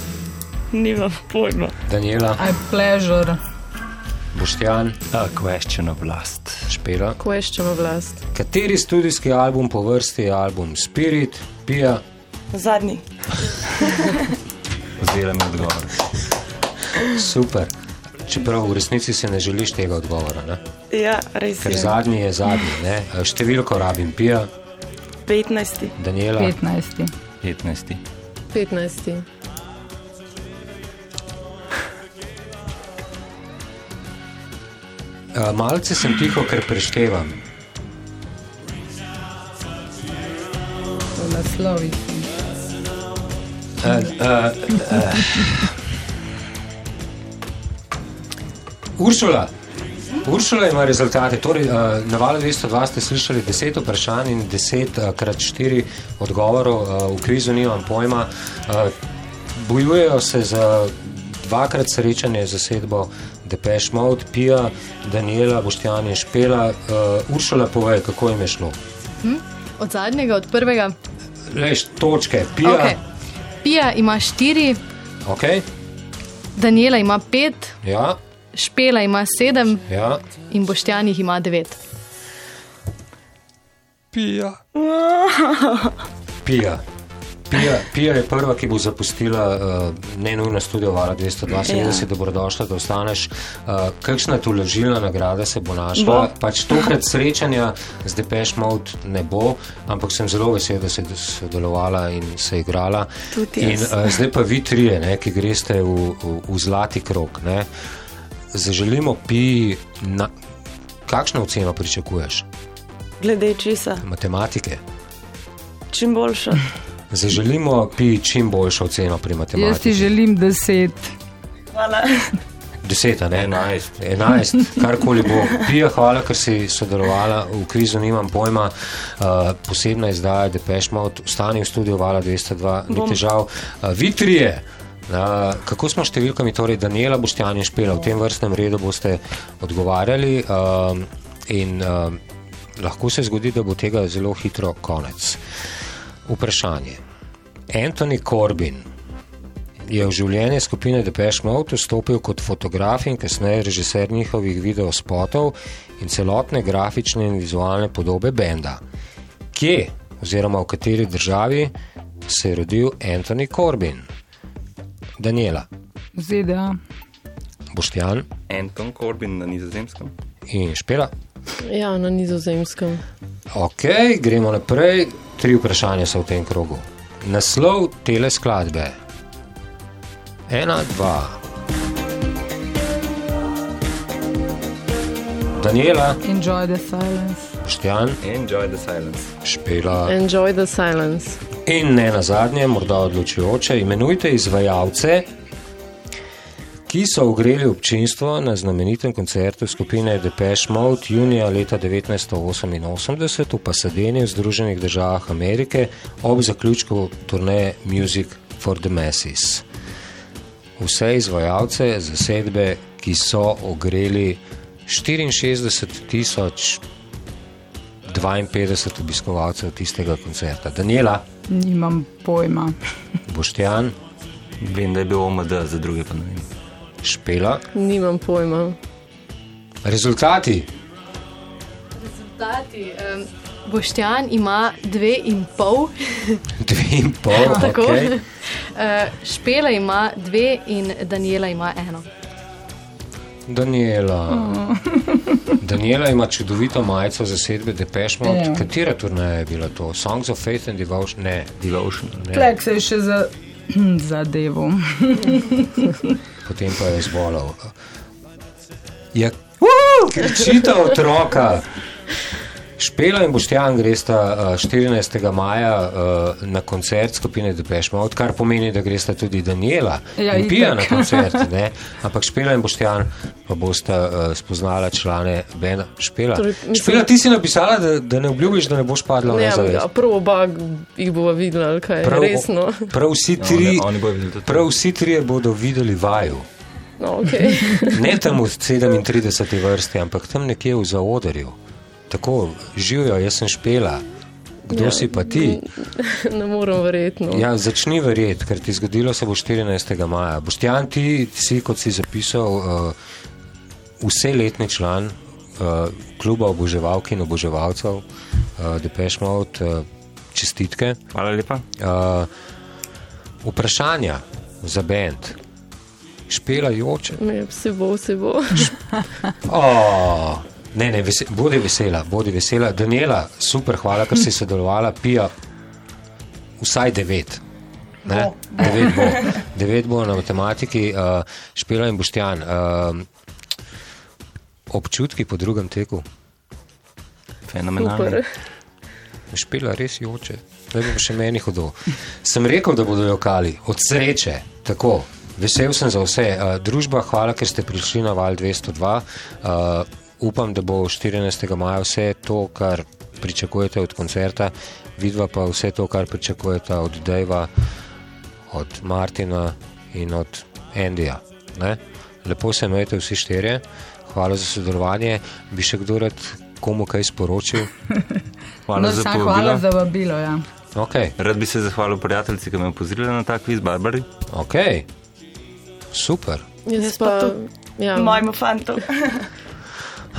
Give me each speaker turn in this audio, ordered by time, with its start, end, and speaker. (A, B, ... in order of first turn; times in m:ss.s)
0:00.7-0:01.7 A
0:01.9-0:02.4 B
0:02.4-0:03.4 C
0:04.3-0:05.0 B
0:05.1-0:06.6 D
0:06.7-0:07.2 B
0:07.2-0:08.2 E
0:08.3-0:12.0 B
0:12.5-0:13.0 A
0:13.8-0:14.3 A
0:15.0-0:16.0 D
0:16.9-0:17.7 B
0:18.2-0:20.6 B
0:20.9-0:22.0 A
0:21.6-0:24.5 B
0:25.2-0:25.9 A
0:26.0-0:26.6 B
0:26.4-0:27.1 C
0:27.4-0:28.0 D
0:28.5-0:29.2 E
0:35.3-0:37.3 B
0:41.2-0:42.3 C
0:43.8-0:45.7 B
0:49.0-0:49.5 B
0:50.2-0:58.9 B
0:59.5-1:08.8 B
1:09.2-1:10.9 F
1:11.5-1:13.0 B
1:12.6-1:13.0 F
1:13.6-1:14.8 F
1:15.2-1:15.6 B
1:16.5-1:17.8 F
1:17.8-1:18.2 B
1:18.5-1:19.8 F
1:19.9-1:20.2 B
1:20.4-1:21.8 F
1:24.1-1:24.6 B
1:24.7-1:26.0 A
1:26.4-1:26.8 B
1:27.5-1:47.7 B
1:31.6-1:32.1 A
1:35.9-1:36.3 A
1:43.3-1:44.0 A
1:48.5-1:50.3 B
1:51.0-1:52.4 B
1:53.2-1:54.0 A
1:54.0-1:54.8 B
1:55.9-1:56.6 A
1:57.1-2:00.1 B
1:59.5-2:01.1 C
2:01.7-2:02.4 A
2:02.8-2:22.2 B
2:03.3-2:03.9 D
2:12.9-2:13.2 A
2:22.8-2:25.4 B
2:26.3-2:27.0 B
2:27.7-2:28.8 B
2:29.8-2:38.8 B
2:39.5-2:41.7 B
2:42.3-2:44.0 B
2:45.2-2:45.7 B
2:46.2-2:46.8 C
2:47.7-2:48.2 B
2:48.5-2:50.1 D
2:50.5-2:51.1 B
2:51.6-2:53.0 E
2:53.5-2:59.0 B
3:00.5-3:01.4 B
3:05.6-3:06.2 B
3:06.2-3:07.5 C
3:07.6-3:08.2 B
3:08.2-3:09.3 D
3:09.4-3:10.1 B
3:10.0-3:11.4 E
3:11.6-3:15.3 B
3:16.9-3:29.6 B
3:30.8-3:36.8 B
3:38.1-3:41.2 B
3:41.5-3:42.7 C
3:43.3-3:43.9 B
3:44.6-3:46.5 D
3:47.0-3:47.6 B
3:47.7-3:48.8 E
3:49.8-3:50.7 B
3:52.0-3:56.4 F
3:56.6-3:58.2 B
3:57.4-3:58.2 F
3:58.8-4:02.1 F
4:03.5-4:04.5 B
4:04.3-4:05.5 C
4:05.6-4:11.5 B
4:08.2-4:08.7 C
4:11.6-4:12.2 D
4:12.2-4:12.5 B
4:12.3-4:16.0 C
4:16.4-4:17.7 B
4:19.1-4:21.7 B
4:22.8-4:39.8 B
4:30.2-4:31.5 C
4:36.3-4:37.0 E
4:39.3-4:42.9 E
4:42.0-4:43.9 B
4:43.4-4:44.7 D
4:44.4-4:46.5 B
4:47.0-4:48.0 E
4:47.8-4:51.6 B
4:52.1-4:54.0 B
4:54.7-4:55.6 B
4:54.7-4:57.4 E
4:57.3-5:02.9 B
5:04.0-5:08.0 B
5:08.6-5:11.0 B
5:11.1-5:11.6 D
5:11.8-5:12.3 B
5:13.4-5:15.4 B
5:16.3-5:17.2 B
5:17.2-5:18.7 E
5:19.4-5:25.3 B
5:26.6-5:27.4 B
5:28.0-5:33.1 B
5:34.7-5:36.0 B
5:37.5-5:38.2 D
5:37.8-5:38.2 E
5:39.3-5:57.5 B
5:58.5-6:07.7 B
6:08.7-6:09.6 D
6:08.7-6:10.4 C
6:10.7-6:11.1 B
6:11.2-6:14.1 D
6:14.3-6:14.9 B
6:15.9-6:16.4 B
6:16.6-6:18.3 E
6:16.8-6:17.4 A
6:17.9-6:19.3 A